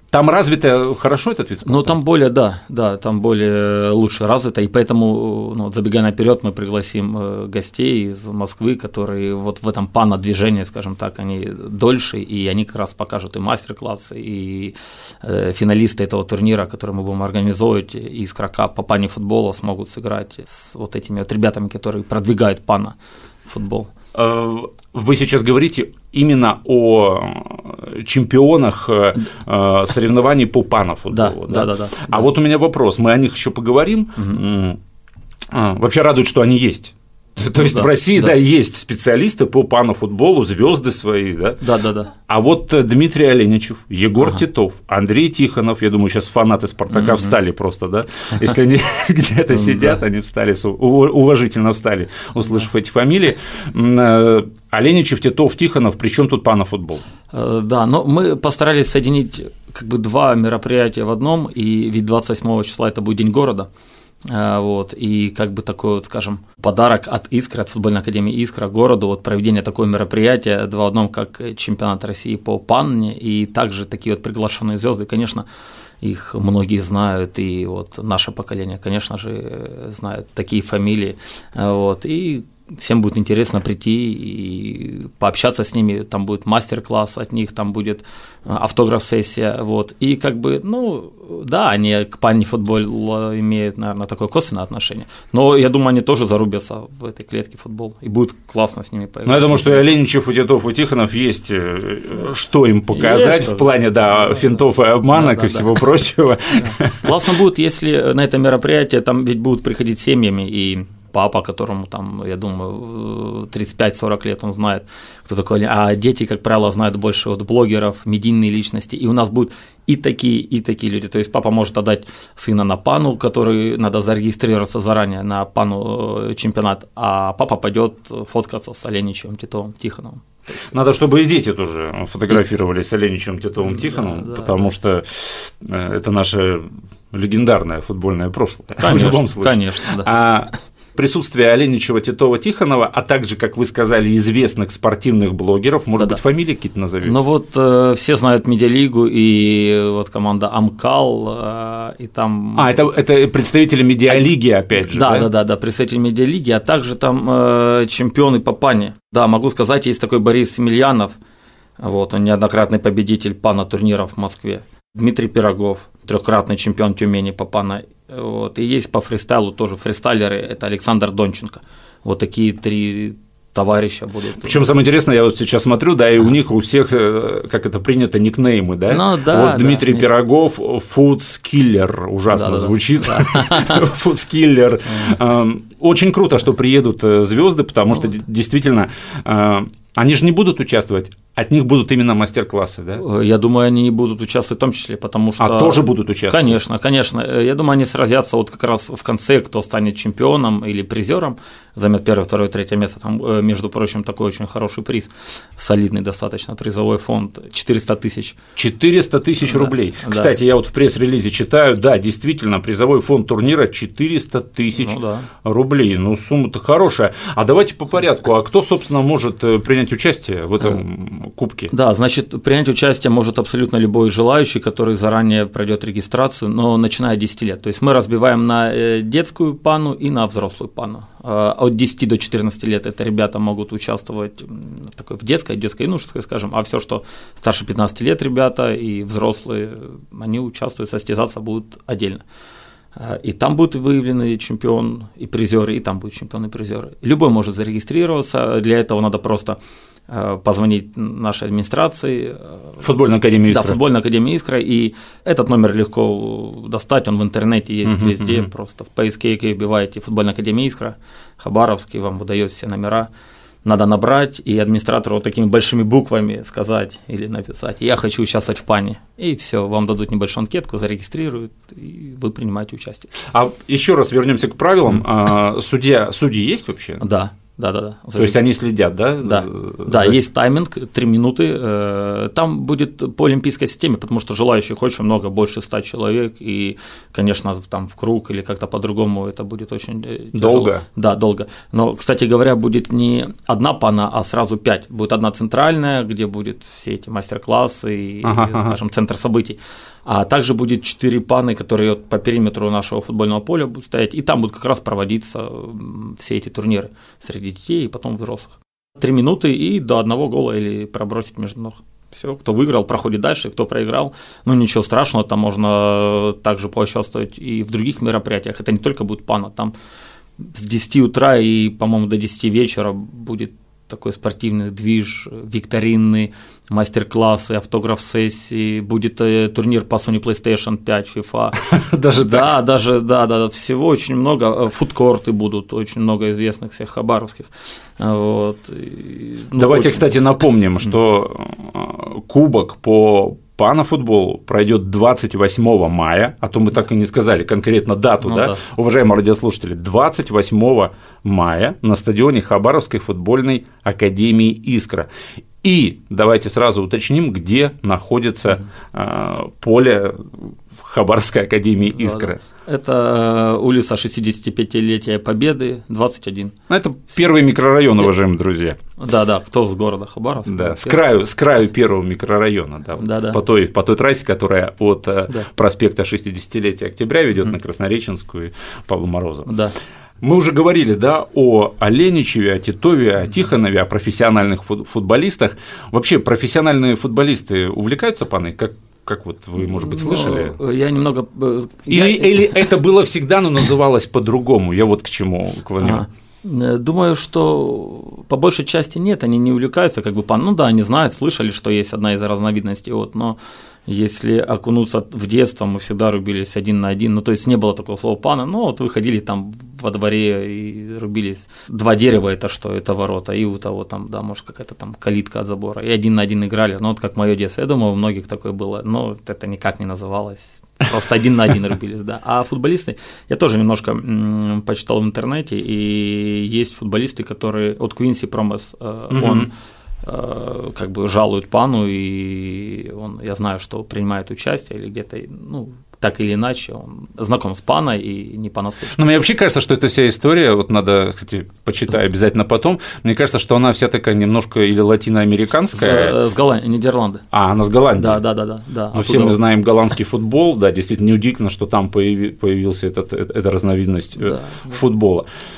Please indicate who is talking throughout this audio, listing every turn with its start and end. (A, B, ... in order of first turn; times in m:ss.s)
0:00.1-0:02.0 A
0:01.6-0:23.9 B
0:24.1-0:34.8 A
0:31.1-0:32.3 B
0:34.2-0:34.4 B
0:35.5-0:41.6 A
0:37.6-0:38.3 B
0:41.6-0:42.1 B
0:42.3-0:57.0 A
0:46.9-0:47.4 B
0:49.5-0:50.0 B
0:57.3-1:03.7 B
1:04.3-1:15.4 B
1:16.0-1:39.9 B
1:39.2-1:47.1 A
1:42.9-1:44.6 B
1:45.1-1:45.8 B
1:46.6-2:10.8 B
2:10.7-2:27.2 A
2:13.6-2:14.7 B
2:18.8-2:20.1 B
2:27.0-2:32.8 B
2:32.6-2:35.3 A
2:34.8-2:41.2 B
2:41.8-2:54.6 B
2:54.4-3:13.0 A
2:58.9-3:00.1 B
3:02.3-3:03.9 B
3:13.0-3:28.4 B
3:15.4-3:16.6 A
3:28.6-3:41.7 A
3:29.4-3:30.3 B
3:34.8-3:35.3 B
3:41.7-4:02.2 B
4:02.9-4:09.6 B
4:10.1-4:12.8 B
4:12.8-4:13.8 A
4:13.5-4:23.1 B
4:17.8-4:18.5 A
4:23.6-4:33.1 B
4:33.3-4:37.0 A
4:37.0-4:38.4 B
4:38.2-4:40.2 A
4:39.2-5:19.7 B
4:50.3-4:50.8 A
4:58.2-4:58.8 A
5:20.4-5:31.6 B
5:31.6-5:32.5 A
5:32.1-5:40.2 B
5:39.6-5:55.1 A
5:48.2-5:48.6 B
5:55.6-6:02.4 A
6:01.9-6:06.5 B
6:06.7-6:08.8 A
6:09.0-6:11.0 B
6:10.5-6:19.5 A
6:13.0-6:13.4 B
6:19.5-6:19.8 B
6:20.2-6:30.6 A
6:29.6-6:32.8 B
6:31.9-6:36.0 A
6:35.8-7:09.5 B
7:09.1-7:09.5 A
7:10.0-7:19.0 B
7:18.9-7:26.2 A
7:25.7-7:27.2 B
7:27.3-7:28.2 A
7:28.0-7:29.4 B
7:28.9-7:35.2 A
7:34.2-7:34.8 B